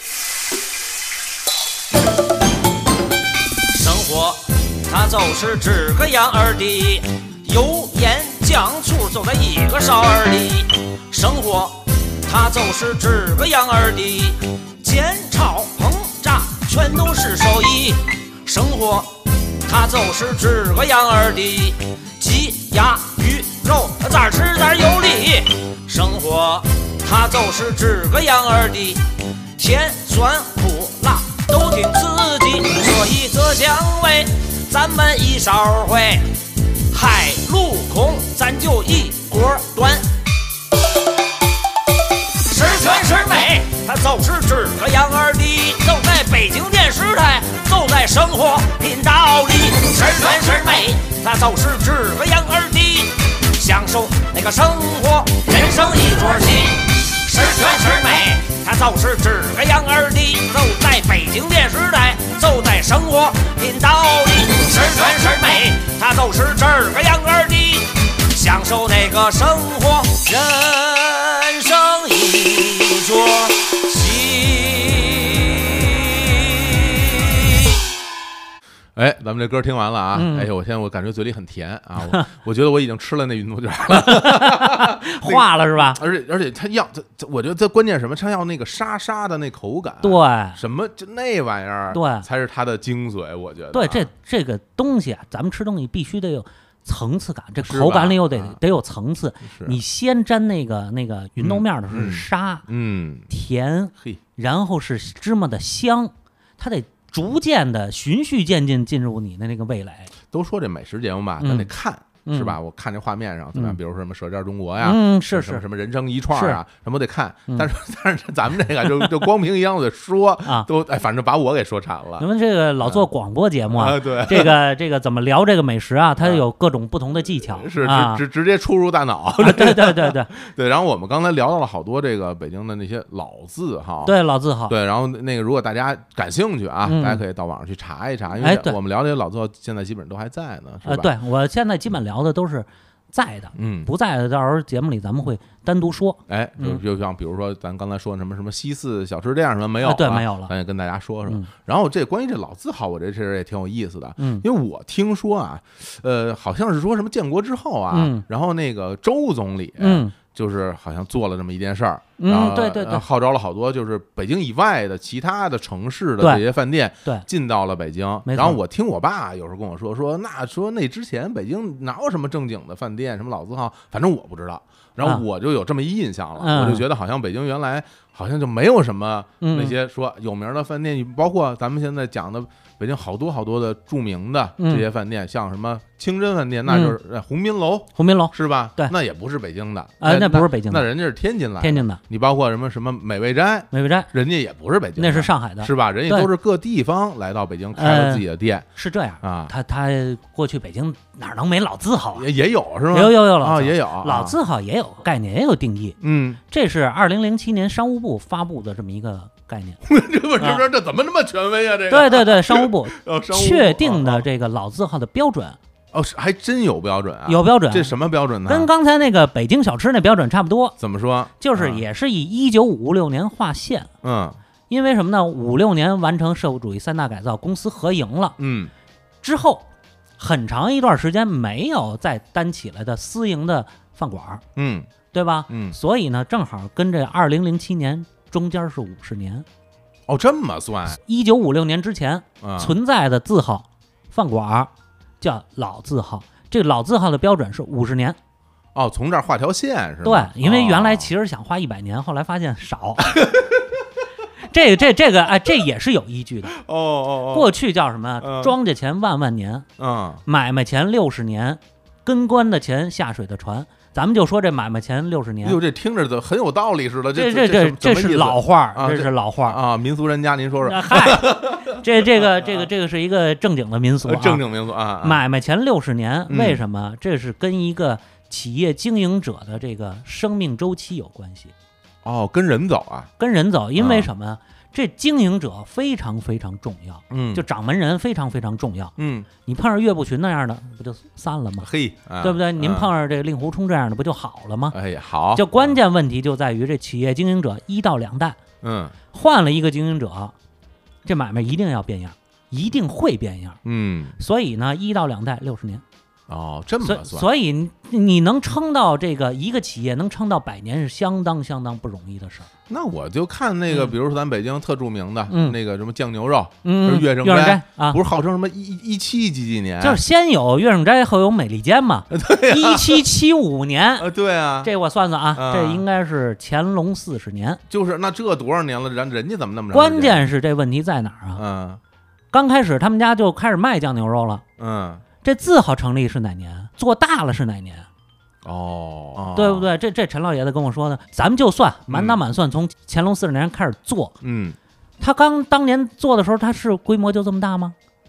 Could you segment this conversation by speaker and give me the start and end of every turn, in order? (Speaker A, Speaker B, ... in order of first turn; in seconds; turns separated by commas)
Speaker A: 3.7-29.0, Speaker A: 29.6-36.4, Speaker A: 36.9-40.1, Speaker A: 42.5-77.5, Speaker B: 79.0-94.1, Speaker C: 80.1-80.5, Speaker C: 83.9-86.0, Speaker C: 90.0-90.6, Speaker C: 91.9-92.3, Speaker C: 93.7-102.7, Speaker B: 97.6-98.6, Speaker B: 99.4-99.8, Speaker B: 101.4-103.3, Speaker C: 103.3-110.1, Speaker B: 110.3-122.3, Speaker C: 111.4-111.7, Speaker C: 112.2-112.6, Speaker C: 114.8-115.7, Speaker C: 116.3-116.6, Speaker C: 120.4-120.7, Speaker C: 122.2-128.2, Speaker B: 122.8-123.1, Speaker B: 123.7-124.6, Speaker B: 126.2-126.5, Speaker B: 127.3-134.2, Speaker C: 129.4-130.3, Speaker C: 134.0-134.8, Speaker B: 134.7-141.1, Speaker C: 136.8-137.2, Speaker C: 138.4-138.8, Speaker C: 140.8-146.8, Speaker B: 143.6-143.9, Speaker B: 146.3-198.7, Speaker C: 149.8-150.5, Speaker C: 154.2-154.4, Speaker C: 157.9-158.2, Speaker C: 159.8-160.1, Speaker C: 162.2-163.0, Speaker C: 166.2-166.4, Speaker C: 168.3-168.6, Speaker C: 176.4-176.8, Speaker C: 179.4-179.8, Speaker C: 184.6-184.9, Speaker C: 186.7-187.0, Speaker C: 188.0-188.9, Speaker C: 190.0-190.9, Speaker C: 191.6-192.0, Speaker C: 193.7-194.1, Speaker C: 195.0-196.3, Speaker C: 197.7-198.2, Speaker C: 198.8-202.3, Speaker B: 199.2-199.5, Speaker B: 202.2-204.4, Speaker C: 202.9-206.0, Speaker B: 206.0-206.4, Speaker C: 206.5-209.8, Speaker B: 209.8-214.3, Speaker C: 210.4-210.7, Speaker C: 211.9-215.6, Speaker B: 215.9-218.7, Speaker C: 217.3-217.9, Speaker C: 218.5-220.8, Speaker B: 220.8-221.8, Speaker C: 221.4-223.9, Speaker B: 224.0-224.4, Speaker C: 224.7-228.4, Speaker B: 228.4-228.7, Speaker C: 229.2-229.7, Speaker C: 230.2-234.4, Speaker B: 234.6-234.9, Speaker C: 235.1-239.5, Speaker B: 235.5-235.8, Speaker B: 240.1-241.0, Speaker C: 240.9-248.2, Speaker B: 242.4-242.7, Speaker B: 248.8-251.1, Speaker C: 250.0-253.2, Speaker B: 253.0-253.7, Speaker C: 254.5-256.6, Speaker B: 256.5-257.5, Speaker C: 257.3-259.7, Speaker B: 258.2-258.6, Speaker B: 259.8-260.2, Speaker C: 260.3-265.6, Speaker B: 265.4-272.7, Speaker C: 267.1-269.6, Speaker C: 270.6-274.4, Speaker B: 274.0-275.2, Speaker C: 275.0-281.5, Speaker B: 276.3-276.6, Speaker B: 282.0-283.1, Speaker C: 283.2-288.9, Speaker B: 283.8-284.1, Speaker B: 287.1-287.4, Speaker B: 289.0-289.3, Speaker C: 289.4-291.7, Speaker B: 291.6-292.9, Speaker C: 292.2-294.8, Speaker B: 294.7-295.8, Speaker C: 295.3-298.4, Speaker B: 298.6-298.9, Speaker C: 299.1-300.3, Speaker C: 301.1-303.6, Speaker B: 303.6-304.2, Speaker C: 304.2-305.8, Speaker B: 306.3-307.3, Speaker C: 306.8-312.5, Speaker B: 312.7-320.0, Speaker C: 313.7-313.9, Speaker C: 315.3-315.6, Speaker C: 316.6-318.0, Speaker C: 319.8-324.1, Speaker B: 322.1-323.1, Speaker B: 324.0-324.7, Speaker C: 324.6-327.6, Speaker B: 325.3-325.9, Speaker B: 327.7-330.3, Speaker C: 329.7-331.4, Speaker B: 331.4-331.8, Speaker C: 332.3-334.4, Speaker B: 334.6-335.0, Speaker C: 335.2-337.9, Speaker B: 338.4-339.7, Speaker C: 339.3-344.1, Speaker B: 341.9-342.2, Speaker B: 344.2-344.6, Speaker C: 345.0-347.8